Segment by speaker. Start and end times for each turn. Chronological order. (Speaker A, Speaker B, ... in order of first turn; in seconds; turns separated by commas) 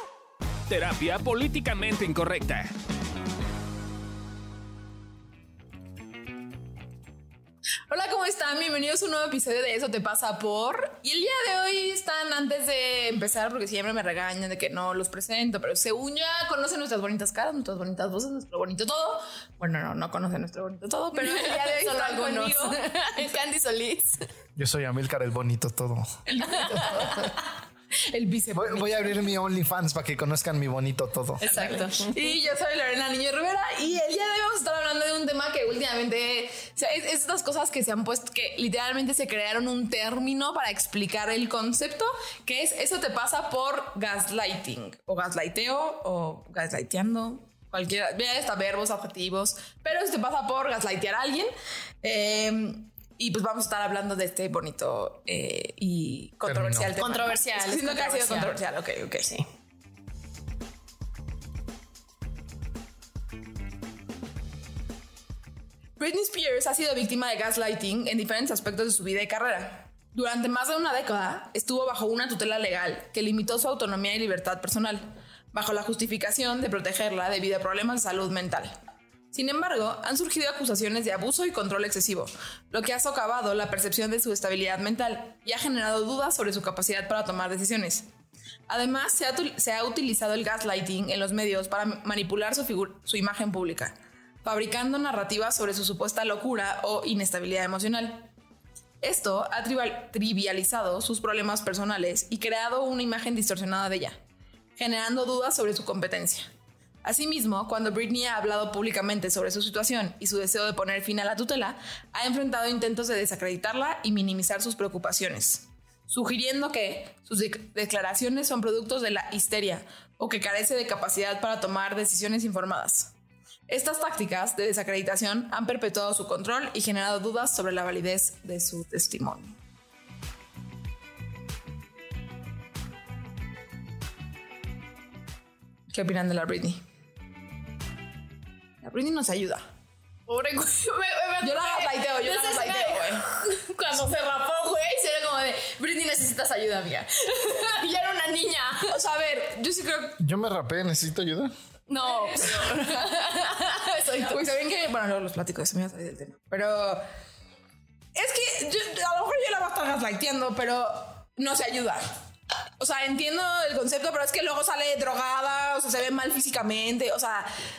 Speaker A: 0.7-2.7, Speaker B: 7.9-23.3, Speaker C: 21.1-24.2, Speaker D: 24.6-26.1, Speaker B: 26.3-27.4, Speaker D: 26.7-27.2, Speaker B: 27.9-29.2, Speaker D: 28.5-31.4, Speaker C: 31.4-32.2, Speaker B: 31.4-51.5, Speaker B: 52.0-59.3, Speaker D: 56.5-57.0, Speaker C: 57.0-58.6, Speaker B: 66.0-78.7, Speaker B: 79.3-88.1, Speaker B: 88.7-98.3, Speaker B: 99.0-104.2, Speaker B: 104.8-106.5, Speaker B: 107.0-123.1, Speaker B: 123.7-129.6, Speaker B: 135.9-136.8, Speaker B: 138.8-139.6, Speaker C: 140.3-148.9, Speaker B: 141.4-143.2, Speaker B: 148.9-150.2, Speaker D: 150.2-151.5, Speaker C: 151.9-154.4, Speaker B: 152.2-152.7, Speaker B: 154.3-157.0, Speaker B: 158.2-162.0, Speaker B: 162.8-167.5